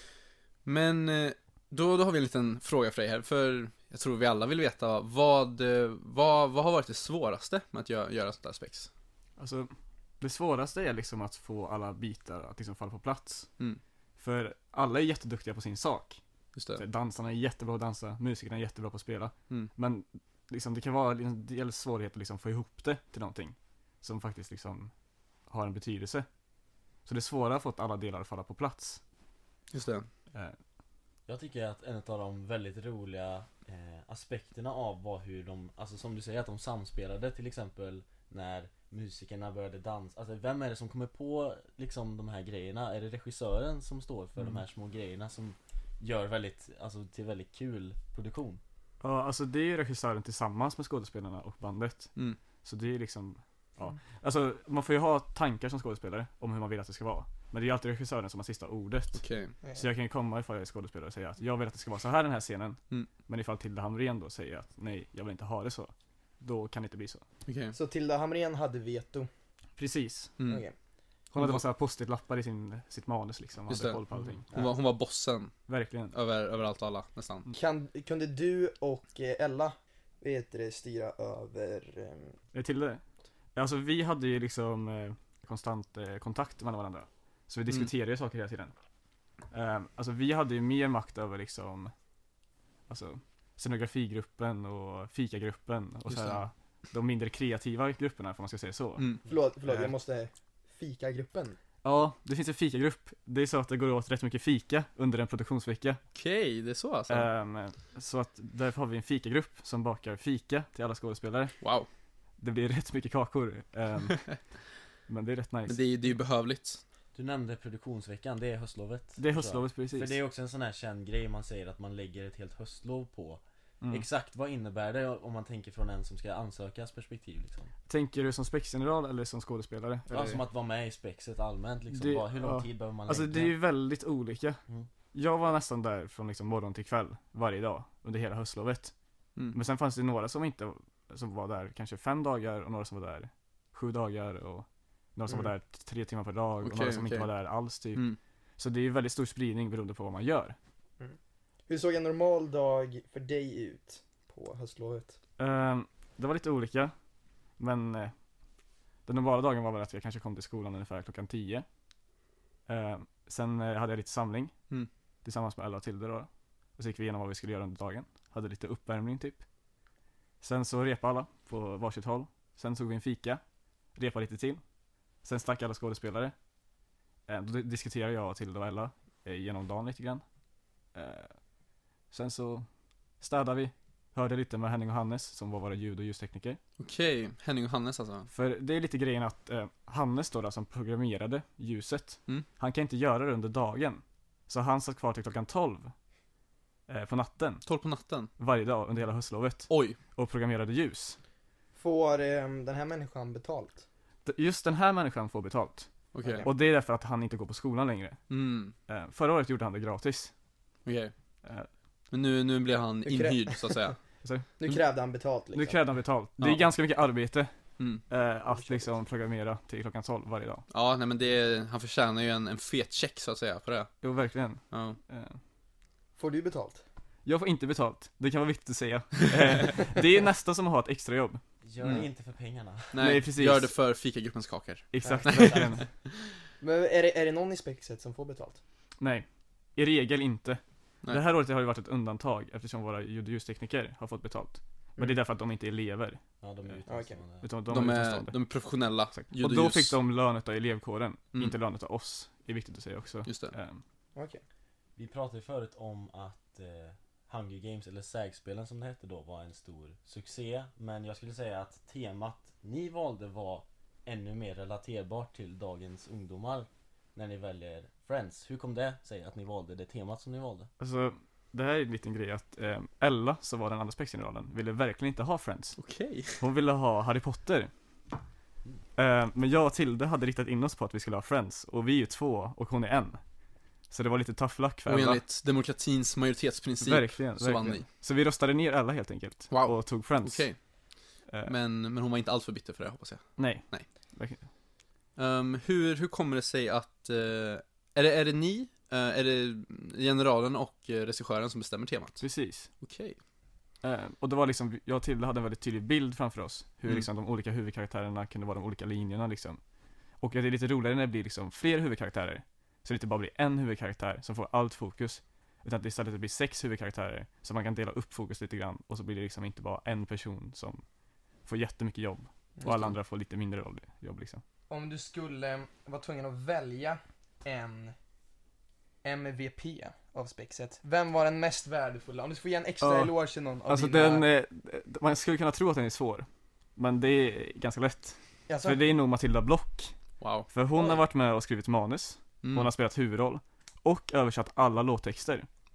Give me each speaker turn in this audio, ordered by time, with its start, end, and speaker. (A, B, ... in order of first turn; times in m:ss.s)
0:00.6-0:08.9 A
0:09.4-0:13.5 B
0:14.2-0:16.2 B
0:16.6-0:16.8 A
0:16.8-0:24.9 B
0:25.5-0:26.3 B
0:27.0-0:29.0 B
0:29.7-0:30.1 A
0:30.3-0:30.6 B
0:31.3-0:48.6 C
0:49.0-1:07.2 B
0:59.2-0:59.5 A
1:07.5-1:07.8 A
1:07.7-1:09.3 D
1:09.8-1:10.3 B
1:10.4-1:10.6 A
1:10.5-1:10.8 D
1:11.3-1:14.5 B
1:11.3-1:11.6 A
1:13.7-1:15.5 A
1:15.7-1:16.1 B
1:16.1-1:17.5 A
1:17.5-1:22.4 D
1:22.5-1:23.0 B
1:23.6-1:28.7 B
1:29.5-1:31.9 B
1:32.9-1:39.1 B
1:36.1-1:36.4 A
1:39.3-1:41.6 D
1:39.7-1:39.9 B
1:41.8-1:46.0 B
1:46.2-1:47.3 A
1:47.1-1:51.6 B
1:51.6-1:51.9 A
1:52.4-1:54.4 B
1:55.1-1:55.8 B
1:55.7-1:56.8 A
1:57.1-2:07.7 C
1:59.2-2:00.2 B
2:03.8-2:04.1 B
2:07.9-2:10.4 B
2:10.1-2:13.6 C
2:11.9-2:14.6 B
2:15.1-2:18.9 B
2:19.5-2:28.1 B
2:26.6-2:27.3 A
2:28.6-2:30.6 B
2:31.7-2:35.2 D
2:35.4-2:36.9 B
2:37.6-2:38.1 B
2:39.1-2:41.7 B
2:42.7-2:44.6 B
2:45.2-2:49.4 B
2:50.4-2:53.4 B
2:54.0-2:54.6 B
2:55.2-2:56.3 B
2:57.3-3:00.2 B
3:00.9-3:01.3 B
3:02.1-3:02.7 B
3:03.2-3:06.6 B
3:06.8-3:08.3 A
3:08.3-3:15.9 B
3:16.9-3:17.6 B
3:17.7-3:18.3 A
3:18.4-3:21.2 B
3:19.7-3:20.0 A
3:21.8-3:23.8 D
3:24.3-3:28.2 B
3:26.1-3:26.5 A
3:26.2-3:26.5 D
3:28.3-3:28.7 A
3:28.9-3:30.3 B
3:30.8-3:31.1 A
3:31.4-3:31.7 B
3:32.1-3:34.0 A
3:33.0-3:34.0 D
3:34.2-3:34.5 B
3:34.6-3:35.8 D
3:35.5-3:37.5 B
3:36.4-3:36.7 A
3:38.1-3:40.7 B
3:38.5-3:38.9 D
3:40.7-3:43.9 A
3:44.0-3:45.4 B
3:44.7-3:45.0 A
3:46.2-3:46.8 D
3:47.2-3:51.4 B
3:51.6-3:53.0 C
3:52.9-3:55.9 A
3:53.0-3:53.7 B
3:54.9-3:55.8 B
3:55.0-3:55.8 D
3:56.6-3:58.6 D
3:59.0-4:06.2 B
4:06.4-4:07.5 C
4:06.9-4:07.2 D
4:07.4-4:08.4 B
4:07.7-4:10.0 A
4:09.1-4:13.8 B
4:13.3-4:13.5 A
4:14.2-4:14.4 D
4:15.0-4:30.7 C
4:30.8-4:35.8 B
4:35.8-4:36.4 A
4:36.4-4:37.7 B
4:39.0-4:43.2 B
4:43.9-4:45.2 B
4:44.9-4:47.9 A
4:46.8-4:50.5 B
4:49.5-4:50.6 A
4:51.5-4:53.9 A
4:53.4-4:54.4 B
4:55.2-5:02.2 A
5:02.2-5:02.7 B
5:02.8-5:03.2 A
5:03.8-5:09.6 B
5:10.2-5:20.8 B
5:21.4-5:24.4 B
5:24.7-5:28.0 D
5:29.0-5:34.3 D
5:32.8-5:33.1 B
5:33.7-5:40.0 B
5:38.5-5:38.8 D
5:40.2-5:40.5 A
5:40.5-5:45.5 B
5:40.8-5:41.0 D
5:42.4-5:42.7 A